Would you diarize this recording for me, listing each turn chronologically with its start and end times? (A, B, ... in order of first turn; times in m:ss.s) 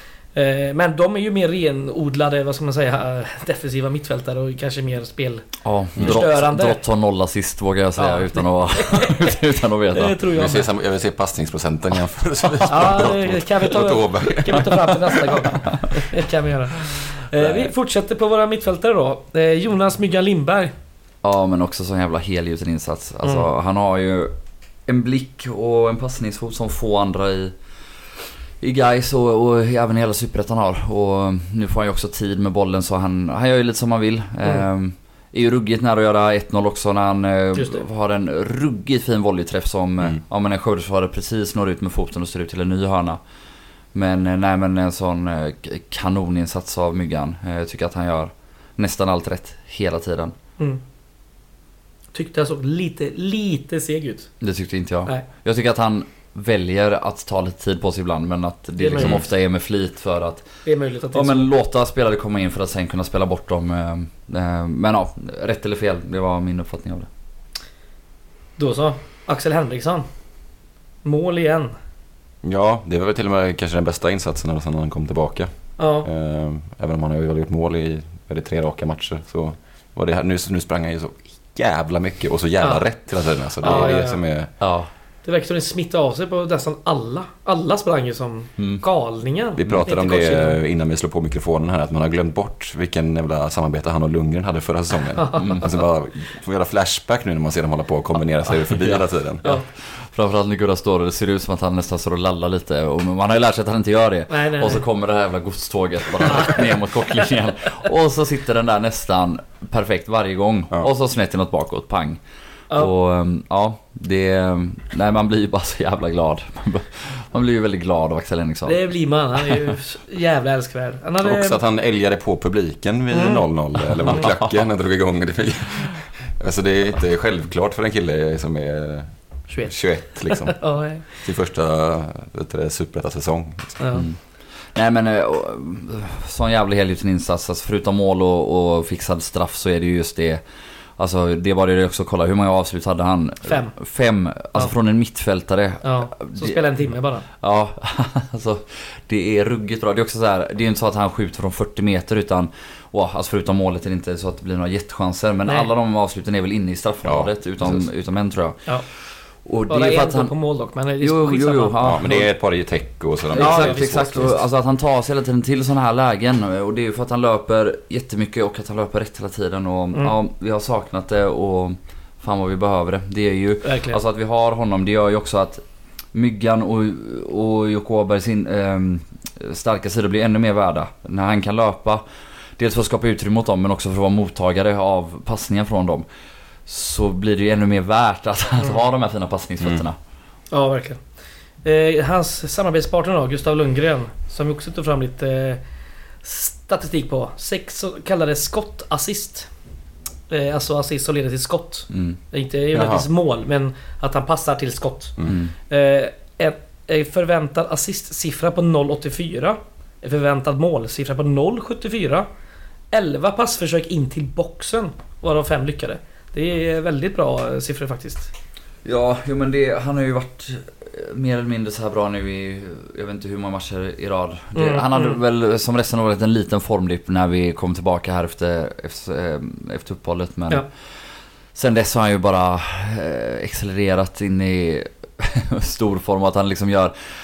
0:00.4-0:06.8 A
0:05.6-0:10.2 B
0:06.0-0:06.2 C
0:08.0-0:09.4 A
0:09.9-0:10.7 A
0:10.3-0:15.6 C
0:12.7-0:20.7 A
0:17.4-0:17.7 B
0:21.2-0:27.6 B
0:28.6-0:43.2 B
0:37.6-0:37.8 A
0:43.9-0:50.4 B
0:52.1-0:54.3 A
0:54.4-1:00.5 B
0:58.8-0:59.2 A
0:59.0-0:59.2 C
1:00.6-1:01.5 A
1:01.1-1:07.1 B
1:08.6-1:10.1 A
1:11.0-1:11.7 A
1:12.4-1:24.5 C
1:15.8-1:16.1 A
1:22.6-1:22.9 A
1:23.6-1:24.2 A
1:24.6-1:24.9 B
1:25.2-1:30.6 A
1:29.6-1:39.4 C
1:35.2-1:35.5 A
1:35.4-1:35.7 B
1:38.7-1:52.2 B
1:44.3-1:44.8 A
1:46.3-1:46.7 A
1:52.7-1:58.8 B
1:58.7-2:01.6 A
2:01.2-2:13.8 C
2:03.1-2:03.5 A
2:04.0-2:04.3 A
2:04.1-2:04.5 B
2:09.5-2:11.2 A
2:13.8-2:14.1 A
2:13.9-2:14.2 B
2:14.8-2:20.4 B
2:21.0-2:26.6 B
2:23.4-2:23.8 A
2:25.8-2:27.2 A
2:27.4-2:40.3 B
2:37.0-2:37.9 C
2:39.7-2:41.8 A
2:41.0-2:42.4 B
2:41.8-2:44.4 C
2:43.3-3:02.0 B
2:43.4-2:44.3 A
2:53.6-2:54.0 A
3:02.6-3:06.1 B
3:06.7-3:10.0 B
3:10.5-3:11.0 A
3:11.6-3:15.6 A
3:16.2-3:19.5 A
3:20.3-3:32.3 A
3:21.9-3:22.2 B
3:22.7-3:23.0 C
3:25.3-3:25.5 B
3:32.9-3:38.3 A
3:38.8-3:50.7 B
3:44.6-3:45.2 A
3:51.6-3:57.0 B